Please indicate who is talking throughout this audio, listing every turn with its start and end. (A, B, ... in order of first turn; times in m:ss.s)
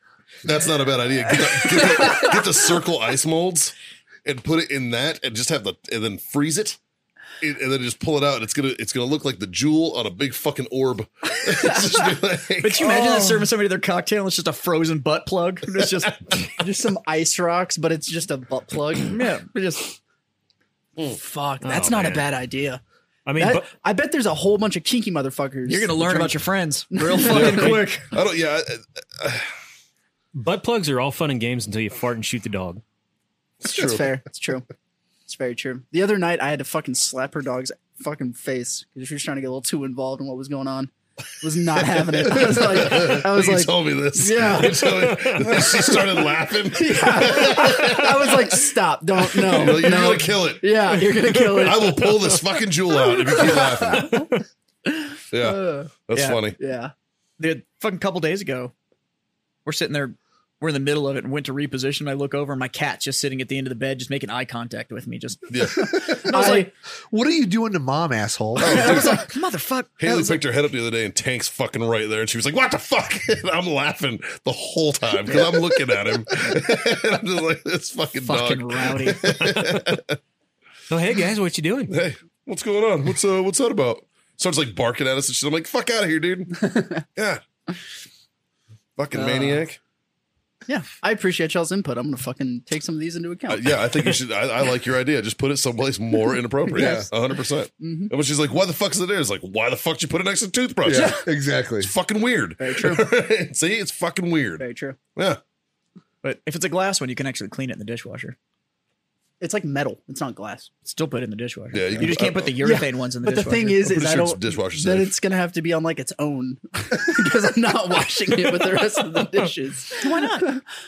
0:00.4-0:06.8 A
0:01.4-0:02.6 B
0:07.4-0:13.1 A
0:11.5-0:12.2 B
0:12.6-0:16.4 C
0:12.8-0:13.5 B
0:15.8-0:16.5 A
0:16.6-0:20.0 B
0:19.1-0:19.5 C
0:21.1-0:22.8 B
0:21.6-0:22.2 D
0:23.2-0:23.7 D
0:23.4-0:26.4 B
0:25.6-0:28.1 C
0:26.9-0:27.9 B
0:27.2-0:29.5 A
0:30.3-0:32.8 D
0:33.6-0:34.1 A
0:33.6-0:34.6 B
0:35.3-0:52.2 B
0:41.8-0:48.6 A
0:49.2-0:51.0 A
0:51.5-0:54.3 A
0:52.9-0:54.3 B
0:54.8-0:55.9 B
0:55.3-0:56.6 A
0:56.1-0:56.4 C
0:56.6-0:56.9 B
0:57.4-0:58.7 C
0:59.6-1:06.7 C
1:05.5-1:06.2 A
1:05.8-1:06.7 B
1:07.1-1:09.0 E
1:08.6-1:09.2 A
1:08.6-1:10.4 C
1:10.0-1:20.2 A
1:18.2-1:19.2 C
1:19.4-1:19.8 D
1:20.9-1:22.0 D
1:21.9-1:27.4 A
1:26.7-1:27.0 B
1:29.0-1:29.8 A
1:29.1-1:29.6 B
1:30.7-1:33.7 B
1:33.5-1:41.2 A
1:36.7-1:37.1 B
1:36.7-1:37.1 E
1:37.8-1:38.1 B
1:40.8-1:41.9 E
1:40.9-1:41.2 B
1:41.8-1:45.4 A
1:42.6-1:43.0 B
1:44.6-1:45.0 B
1:46.2-1:48.4 C
1:49.4-1:50.7 B
1:50.8-1:53.8 C
1:51.7-1:52.6 A
1:52.6-2:00.6 B
1:53.8-1:55.1 A
2:00.0-2:00.6 C